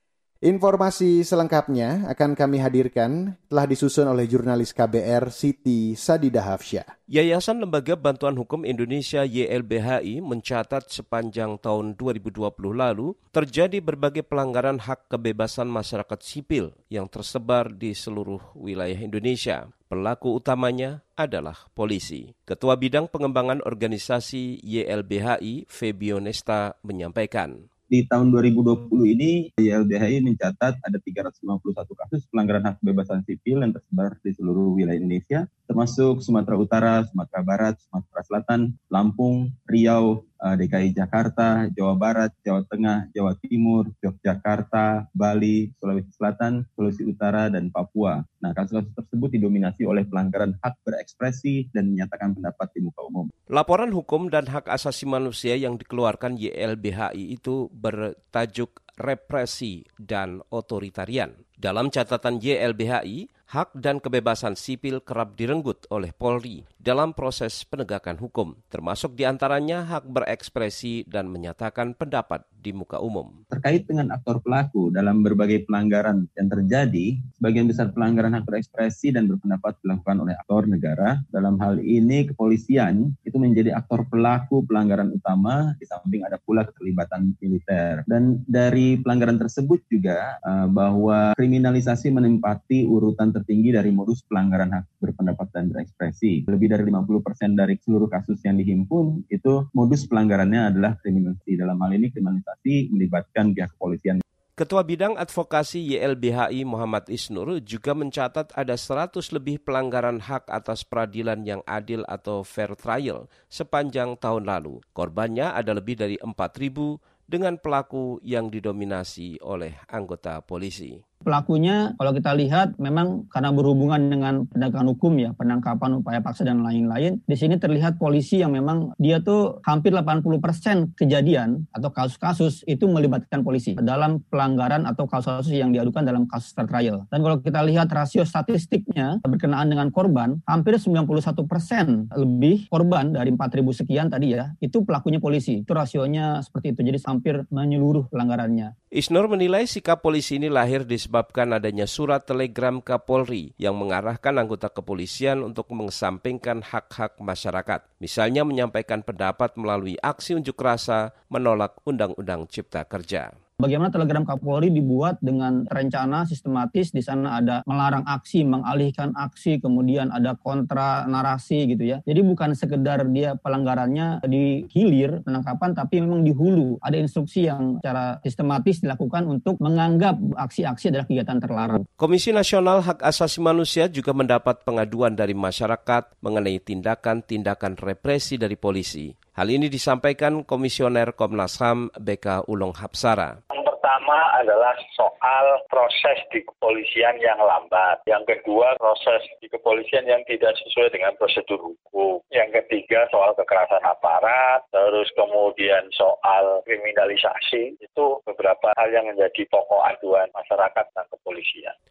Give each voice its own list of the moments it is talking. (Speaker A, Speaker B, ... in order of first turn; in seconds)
Speaker A: 0.4-6.9
Speaker B: 7.1-27.6, 53.5-73.4, 104.6-121.0, 148.9-163.3, 182.0-193.4
Speaker C: 27.9-53.3, 73.5-104.2
Speaker D: 121.3-148.7, 163.6-181.9
Speaker E: 193.5-211.7